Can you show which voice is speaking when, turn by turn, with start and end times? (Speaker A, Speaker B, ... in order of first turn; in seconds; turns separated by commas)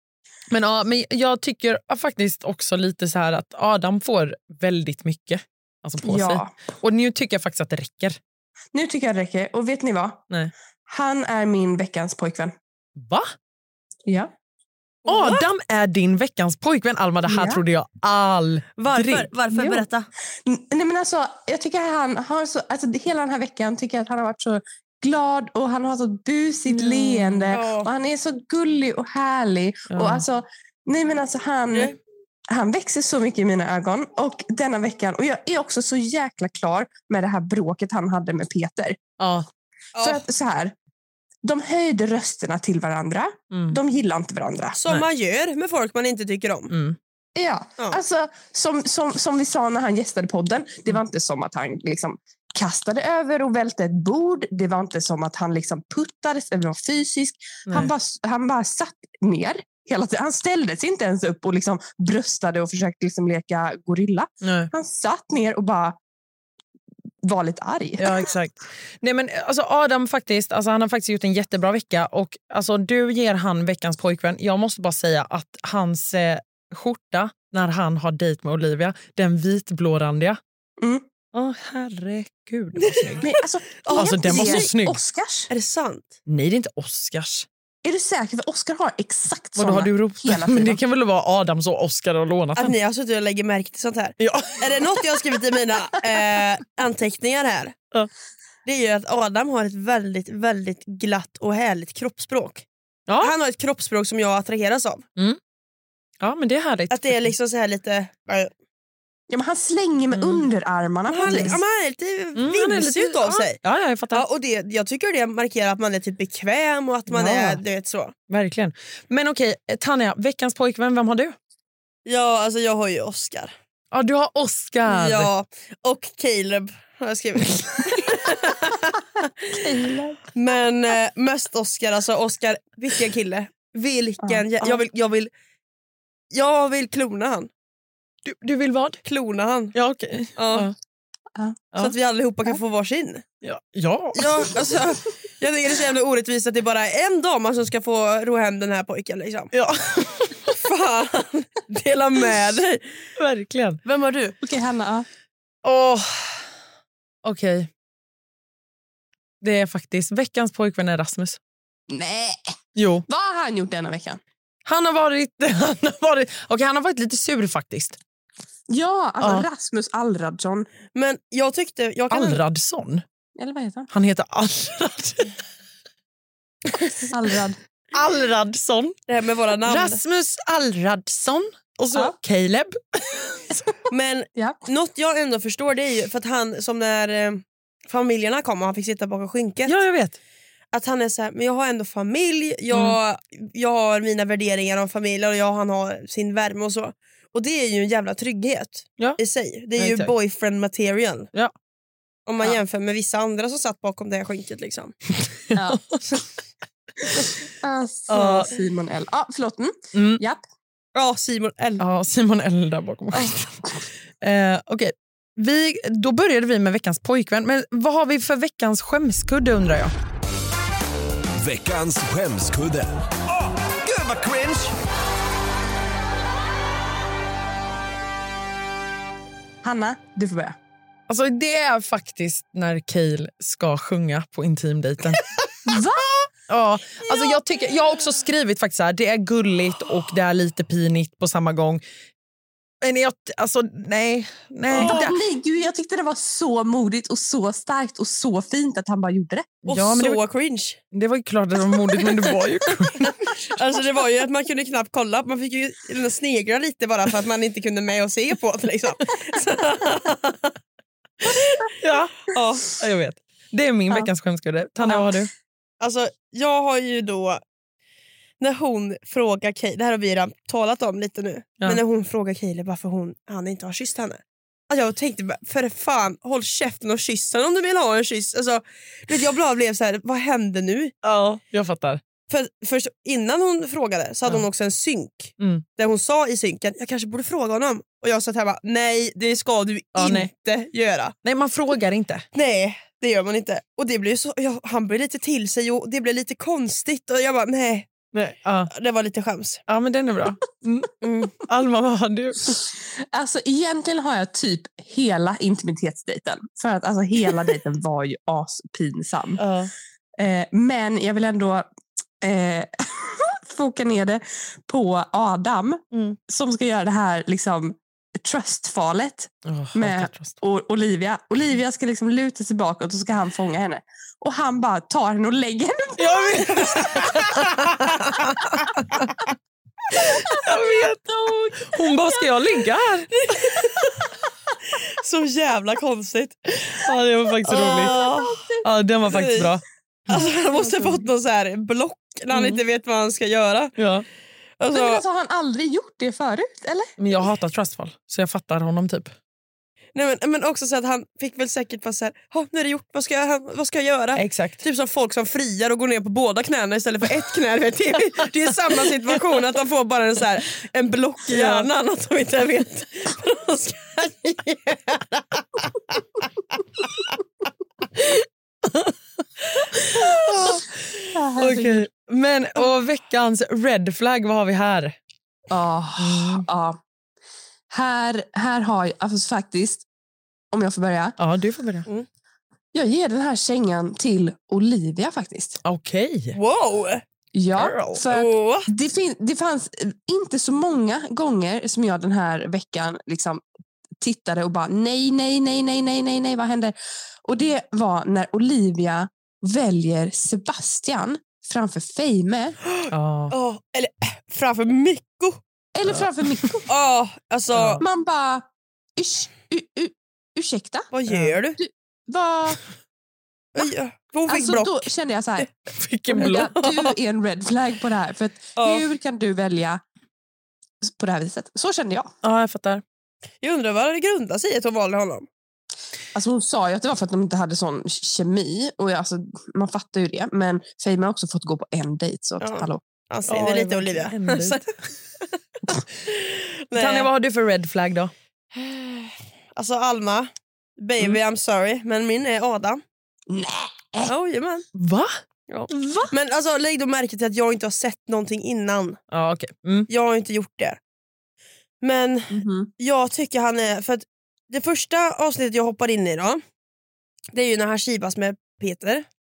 Speaker A: 0.5-8.2, Speaker B: 6.0-6.5, Speaker B: 8.7-10.2, Speaker B: 10.9-12.5, Speaker A: 12.9-13.3, Speaker B: 14.1-14.3, Speaker A: 15.1-19.3, Speaker C: 15.1-15.4, Speaker B: 17.2-17.6, Speaker C: 18.8-20.1, Speaker B: 19.5-19.8, Speaker B: 20.4-31.9, Speaker A: 26.7-27.6, Speaker C: 27.5-27.9, Speaker A: 29.9-30.2, Speaker C: 31.7-31.9, Speaker B: 32.5-39.0, Speaker A: 39.2-39.5, Speaker C: 39.9-40.2, Speaker B: 40.0-40.7, Speaker B: 41.4-44.8, Speaker A: 43.5-43.8, Speaker C: 44.8-46.7, Speaker A: 46.7-47.0, Speaker B: 47.4-66.0, Speaker A: 64.4-64.7, Speaker B: 67.2-68.3, Speaker A: 68.0-80.4, Speaker A: 81.3-83.3, Speaker C: 82.8-84.7, Speaker B: 83.2-85.5, Speaker A: 83.9-85.0, Speaker C: 85.5-86.1, Speaker A: 86.3-87.5, Speaker B: 87.8-90.8, Speaker A: 89.5-92.7, Speaker C: 92.5-97.8, Speaker A: 94.2-95.2, Speaker C: 98.7-102.7, Speaker A: 103.1-103.3, Speaker C: 103.2-105.0, Speaker A: 106.2-107.3, Speaker C: 106.9-108.5, Speaker B: 109.3-111.6, Speaker A: 110.1-110.5, Speaker C: 111.1-113.6, Speaker A: 111.2-111.6, Speaker A: 112.3-114.2, Speaker C: 114.1-118.1, Speaker A: 117.1-117.6, Speaker A: 118.3-121.3, Speaker C: 122.0-123.5, Speaker A: 123.9-125.3, Speaker C: 124.9-129.3, Speaker B: 129.6-130.2, Speaker C: 130.3-135.3, Speaker B: 134.2-134.8, Speaker C: 136.3-137.5, Speaker A: 138.2-139.0, Speaker C: 139.0-139.7, Speaker A: 139.7-140.7, Speaker C: 140.3-140.7, Speaker B: 141.3-141.7, Speaker C: 141.8-143.2, Speaker A: 143.4-144.3, Speaker C: 144.1-149.5, Speaker A: 149.5-150.5, Speaker C: 150.6-152.9, Speaker A: 153.2-153.8, Speaker C: 153.8-154.3, Speaker B: 154.4-155.1, Speaker A: 155.6-156.4, Speaker A: 157.2-157.7, Speaker A: 159.4-161.4, Speaker B: 161.9-162.4, Speaker A: 162.8-163.0, Speaker B: 163.1-164.2, Speaker A: 164.7-168.0, Speaker B: 168.7-170.7, Speaker A: 169.2-169.4, Speaker C: 170.9-172.4, Speaker A: 172.1-173.0, Speaker B: 173.3-173.9, Speaker A: 173.9-175.3, Speaker B: 177.1-177.6, Speaker A: 177.9-179.0, Speaker C: 179.1-180.0, Speaker A: 179.7-183.6, Speaker C: 183.9-189.8, Speaker A: 189.7-190.2, Speaker C: 190.7-201.3, Speaker A: 192.7-193.0, Speaker A: 199.8-200.1, Speaker C: 202.3-204.9, Speaker B: 205.5-205.8, Speaker A: 205.5-206.0, Speaker B: 207.4-210.4, Speaker A: 208.1-208.5, Speaker C: 208.1-208.4, Speaker A: 209.9-210.2, Speaker C: 210.9-211.8, Speaker A: 211.8-213.7, Speaker A: 214.2-219.9, Speaker D: 221.4-223.0, Speaker D: 223.8-224.7, Speaker B: 229.6-230.6, Speaker A: 231.1-235.2, Speaker B: 235.6-236.3, Speaker A: 236.5-241.8, Speaker A: 242.8-245.1, Speaker B: 244.7-249.6, Speaker A: 249.6-250.2, Speaker C: 249.7-250.8, Speaker A: 250.9-253.3, Speaker C: 253.5-260.5, Speaker C: 261.2-261.6, Speaker A: 261.8-265.3, Speaker C: 262.3-262.7, Speaker B: 264.8-265.1, Speaker C: 265.8-267.4, Speaker C: 268.4-280.9, Speaker A: 281.0-282.0, Speaker C: 282.3-291.1, Speaker A: 285.4-285.6, Speaker A: 289.9-290.3, Speaker A: 291.2-292.2, Speaker C: 292.3-298.0, Speaker A: 298.1-298.7, Speaker C: 298.7-299.6, Speaker A: 299.7-302.6, Speaker C: 301.0-301.3, Speaker B: 302.5-309.4, Speaker A: 309.4-309.7, Speaker B: 310.2-311.6, Speaker B: 312.2-326.5, Speaker A: 319.5-320.4, Speaker A: 326.0-329.1, Speaker C: 326.6-327.1, Speaker B: 330.3-331.7, Speaker A: 330.4-333.1, Speaker C: 333.1-334.1, Speaker C: 334.7-336.8, Speaker A: 336.7-338.0, Speaker C: 337.5-338.4, Speaker B: 337.6-338.6, Speaker A: 338.6-340.3, Speaker C: 339.1-339.5, Speaker C: 340.1-343.7, Speaker B: 340.1-341.0, Speaker A: 342.3-342.6, Speaker A: 343.8-344.0, Speaker C: 344.6-345.0, Speaker B: 344.7-347.0, Speaker A: 347.0-349.1, Speaker C: 349.9-366.0, Speaker A: 354.1-354.6, Speaker A: 361.3-361.7, Speaker A: 369.9-370.7, Speaker B: 371.1-371.9, Speaker A: 371.4-374.9, Speaker B: 375.5-376.8, Speaker A: 376.0-376.5, Speaker B: 377.7-379.9, Speaker B: 380.5-381.2, Speaker A: 381.2-381.9, Speaker B: 382.7-385.6, Speaker A: 385.6-386.4, Speaker C: 386.3-387.0, Speaker B: 387.3-393.4, Speaker C: 387.6-388.7, Speaker B: 394.0-402.6, Speaker C: 402.7-405.4, Speaker A: 402.9-403.3, Speaker B: 405.7-406.7, Speaker A: 405.9-406.6, Speaker C: 406.7-407.8, Speaker A: 407.5-407.8, Speaker B: 407.8-408.4, Speaker B: 409.0-410.9, Speaker C: 410.9-411.6, Speaker B: 411.6-412.6, Speaker C: 413.5-414.9, Speaker B: 414.3-415.5, Speaker A: 415.7-416.5, Speaker B: 416.1-419.8, Speaker C: 416.1-416.9, Speaker C: 418.6-418.9, Speaker B: 420.8-422.1, Speaker A: 422.2-422.8, Speaker C: 423.4-425.3, Speaker B: 426.1-432.8, Speaker C: 432.4-435.3, Speaker A: 433.3-434.6, Speaker C: 436.1-437.1, Speaker A: 436.7-438.1, Speaker C: 438.5-442.8, Speaker B: 443.3-444.1, Speaker C: 444.1-444.6, Speaker A: 444.7-445.1, Speaker C: 445.5-449.0, Speaker A: 445.7-446.1, Speaker A: 449.1-449.9, Speaker C: 449.9-450.8, Speaker C: 451.8-456.4, Speaker B: 452.3-452.7, Speaker C: 457.3-459.1